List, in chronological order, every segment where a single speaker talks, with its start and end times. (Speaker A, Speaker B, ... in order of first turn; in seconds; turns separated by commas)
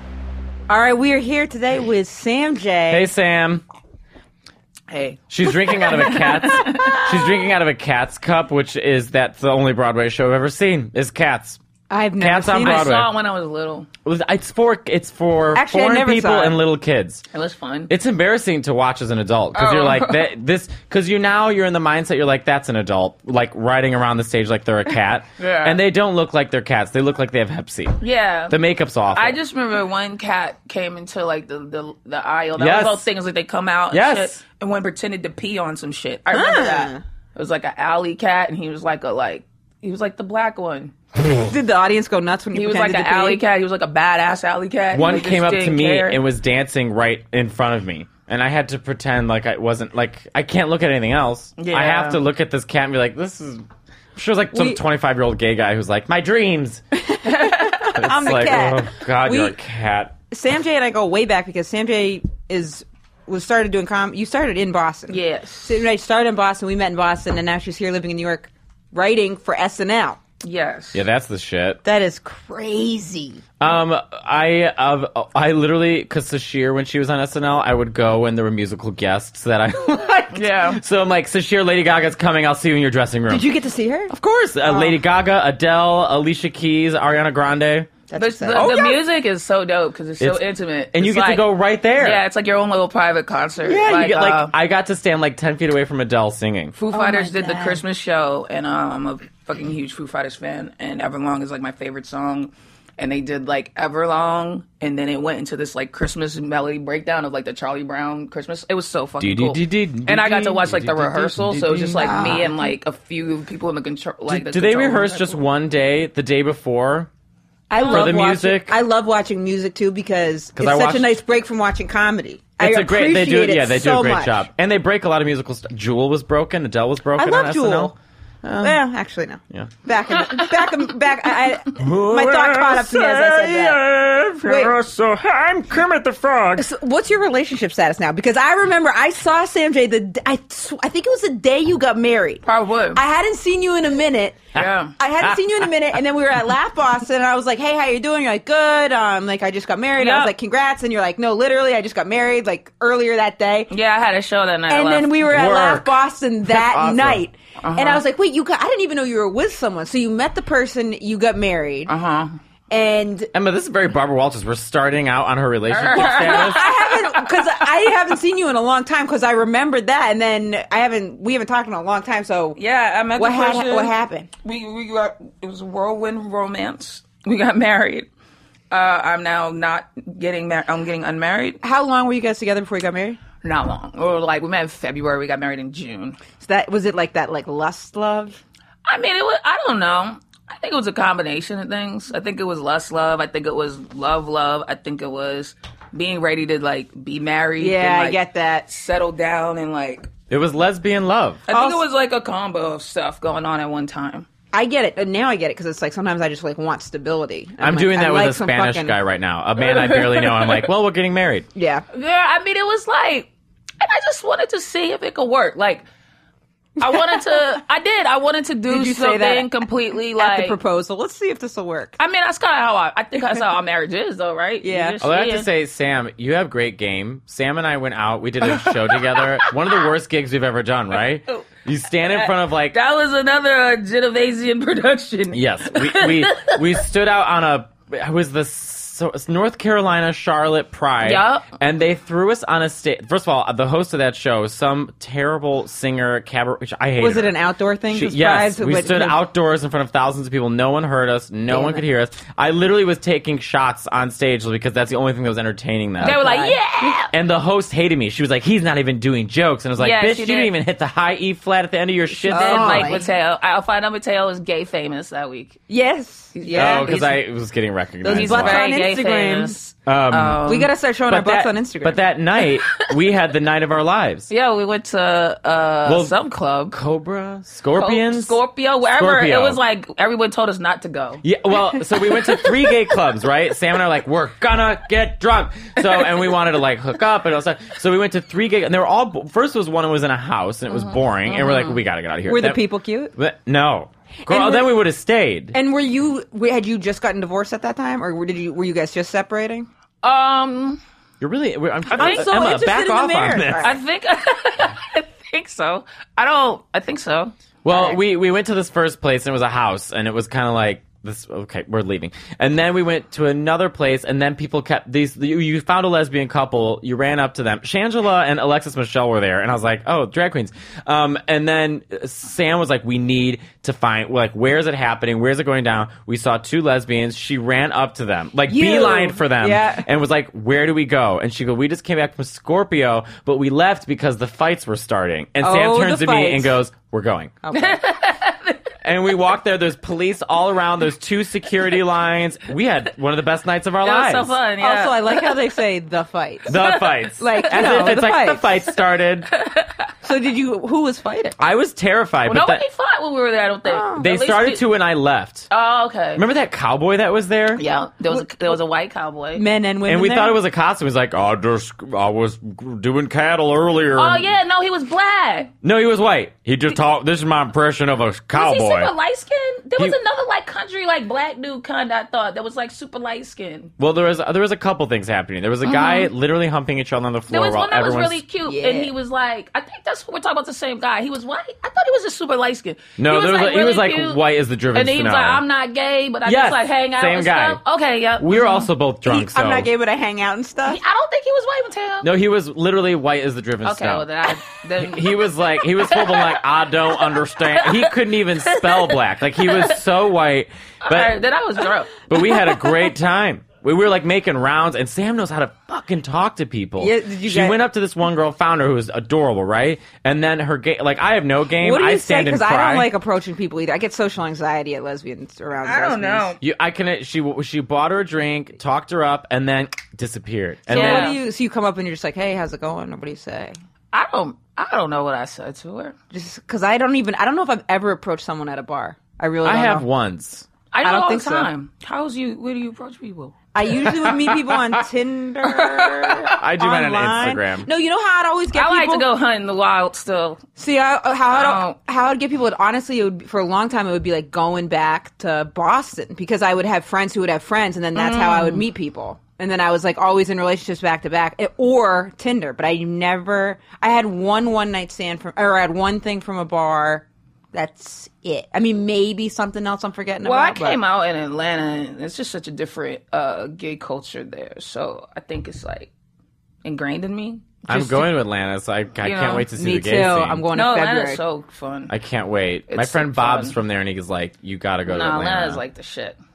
Speaker A: 0.7-3.1, Speaker B: 2.9-3.6, Speaker C: 4.9-7.1, Speaker B: 5.3-11.6, Speaker A: 11.9-12.9, Speaker B: 12.2-13.1, Speaker C: 12.5-13.9, Speaker B: 14.1-17.2, Speaker A: 15.5-16.6, Speaker C: 17.3-17.9, Speaker B: 17.9-29.4, Speaker C: 19.6-20.2, Speaker C: 25.4-25.8, Speaker C: 28.0-28.6, Speaker C: 29.1-40.9, Speaker B: 32.6-33.1, Speaker B: 33.9-34.4, Speaker A: 36.3-37.0, Speaker A: 41.4-43.4, Speaker C: 42.5-46.2, Speaker B: 44.9-53.6, Speaker C: 51.6-52.2, Speaker B: 54.2-56.8, Speaker A: 54.5-54.8, Speaker A: 56.9-59.6, Speaker C: 57.3-57.9, Speaker B: 57.9-60.1, Speaker A: 60.3-70.2, Speaker C: 65.1-65.8, Speaker C: 70.4-71.0, Speaker B: 70.9-71.8, Speaker A: 71.8-73.4, Speaker B: 73.6-83.5, Speaker C: 80.3-80.8, Speaker A: 83.3-84.1, Speaker B: 84.1-87.9, Speaker A: 84.7-85.0, Speaker A: 88.1-89.0, Speaker C: 88.2-94.5, Speaker B: 88.5-88.9, Speaker B: 90.2-92.2, Speaker B: 93.6-96.8, Speaker C: 96.8-115.4, Speaker A: 96.9-97.8, Speaker B: 109.2-112.5, Speaker A: 112.0-112.7, Speaker B: 114.3-117.1, Speaker A: 117.7-124.5, Speaker C: 117.7-118.3, Speaker B: 117.8-118.8, Speaker B: 120.6-121.2, Speaker B: 122.6-128.8, Speaker A: 127.2-128.0, Speaker A: 128.6-133.8, Speaker B: 131.8-136.7, Speaker A: 134.4-134.8, Speaker A: 136.6-142.4, Speaker C: 142.4-143.0, Speaker A: 142.9-153.7, Speaker B: 144.5-145.4, Speaker C: 144.6-144.9, Speaker C: 150.0-150.3, Speaker C: 153.7-155.2, Speaker A: 154.7-161.9, Speaker B: 155.2-157.2, Speaker C: 157.6-158.0, Speaker C: 161.9-162.3, Speaker A: 162.7-163.3, Speaker B: 163.3-166.7, Speaker C: 165.7-167.6, Speaker A: 165.9-172.6, Speaker C: 172.6-173.9, Speaker A: 173.2-174.3, Speaker C: 174.4-178.1, Speaker C: 178.7-181.6, Speaker A: 181.6-183.2, Speaker C: 183.4-186.2, Speaker A: 186.4-188.4, Speaker C: 188.9-200.1, Speaker A: 197.6-198.7, Speaker B: 200.3-201.4, Speaker C: 201.5-204.3, Speaker A: 201.5-201.8, Speaker A: 204.5-209.0, Speaker B: 207.6-211.5, Speaker C: 209.6-210.7, Speaker A: 211.6-211.8, Speaker C: 211.9-215.9, Speaker A: 216.8-217.4, Speaker C: 216.8-220.6, Speaker A: 218.7-219.6, Speaker A: 220.2-222.0, Speaker C: 222.0-225.5, Speaker A: 224.6-225.0, Speaker B: 225.0-232.8, Speaker C: 229.2-229.5, Speaker C: 232.1-236.8, Speaker B: 235.3-247.3, Speaker C: 241.0-241.5, Speaker A: 247.0-249.2, Speaker B: 247.9-256.2, Speaker A: 251.5-251.8, Speaker A: 256.0-257.0, Speaker C: 256.0-257.1, Speaker B: 257.1-263.0, Speaker C: 259.8-260.5, Speaker A: 262.1-263.1, Speaker C: 262.3-265.6, Speaker A: 265.7-267.0, Speaker C: 266.3-267.2, Speaker B: 266.5-268.6, Speaker A: 268.0-269.6, Speaker C: 268.1-270.7, Speaker B: 269.9-274.3, Speaker A: 270.4-272.0, Speaker C: 274.3-276.8, Speaker B: 275.9-276.1, Speaker B: 276.7-278.4, Speaker C: 277.8-281.2, Speaker B: 278.9-279.6, Speaker B: 281.2-295.6, Speaker C: 290.7-291.8, Speaker A: 292.2-293.1, Speaker A: 294.2-294.8, Speaker A: 295.5-299.7, Speaker C: 300.0-300.8, Speaker B: 301.2-303.7, Speaker C: 301.9-302.4, Speaker A: 301.9-303.8, Speaker C: 303.6-307.3, Speaker B: 307.6-337.4, Speaker A: 307.7-308.0, Speaker A: 328.5-329.9, Speaker A: 335.4-336.6, Speaker A: 337.4-337.8, Speaker C: 337.5-338.6, Speaker B: 338.8-344.4, Speaker C: 343.8-345.5, Speaker A: 344.6-346.6, Speaker B: 346.5-349.3, Speaker C: 346.5-348.1, Speaker A: 347.2-348.5, Speaker C: 349.3-349.9, Speaker A: 350.0-351.4, Speaker B: 351.4-352.6, Speaker C: 352.3-354.6, Speaker A: 353.6-354.1, Speaker B: 354.0-355.5, Speaker C: 355.5-356.2, Speaker B: 356.2-357.6, Speaker C: 357.6-359.4, Speaker A: 358.1-358.6, Speaker A: 359.3-360.4, Speaker B: 359.9-364.3, Speaker C: 364.0-365.5, Speaker B: 365.6-368.9, Speaker C: 368.3-373.7, Speaker B: 373.8-378.2, Speaker C: 375.6-376.1, Speaker C: 377.3-388.7, Speaker A: 378.4-378.9, Speaker B: 383.0-385.4, Speaker B: 386.2-387.6, Speaker B: 388.2-389.7, Speaker A: 389.1-390.8, Speaker C: 390.7-392.1, Speaker B: 392.0-394.1, Speaker C: 393.6-399.7, Speaker B: 394.8-401.2, Speaker C: 400.9-402.6, Speaker B: 402.1-412.9, Speaker A: 406.8-407.6, Speaker A: 411.6-416.4, Speaker C: 415.6-416.4, Speaker B: 416.4-421.2, Speaker A: 420.7-423.6, Speaker C: 420.7-421.2, Speaker C: 423.9-425.9, Speaker A: 426.1-429.9, Speaker B: 429.4-430.5, Speaker C: 430.7-433.4, Speaker A: 430.8-431.5, Speaker A: 433.5-439.1, Speaker B: 434.0-434.7, Speaker C: 435.4-436.4, Speaker B: 436.3-437.7, Speaker C: 438.5-440.4, Speaker A: 440.6-460.8, Speaker C: 441.3-441.8, Speaker C: 447.9-448.6, Speaker C: 460.2-465.9, Speaker C: 466.6-468.1, Speaker B: 467.7-470.4, Speaker C: 469.0-469.5, Speaker A: 469.5-471.2, Speaker C: 470.5-471.9, Speaker B: 471.9-475.6, Speaker C: 472.7-473.6, Speaker C: 474.9-476.2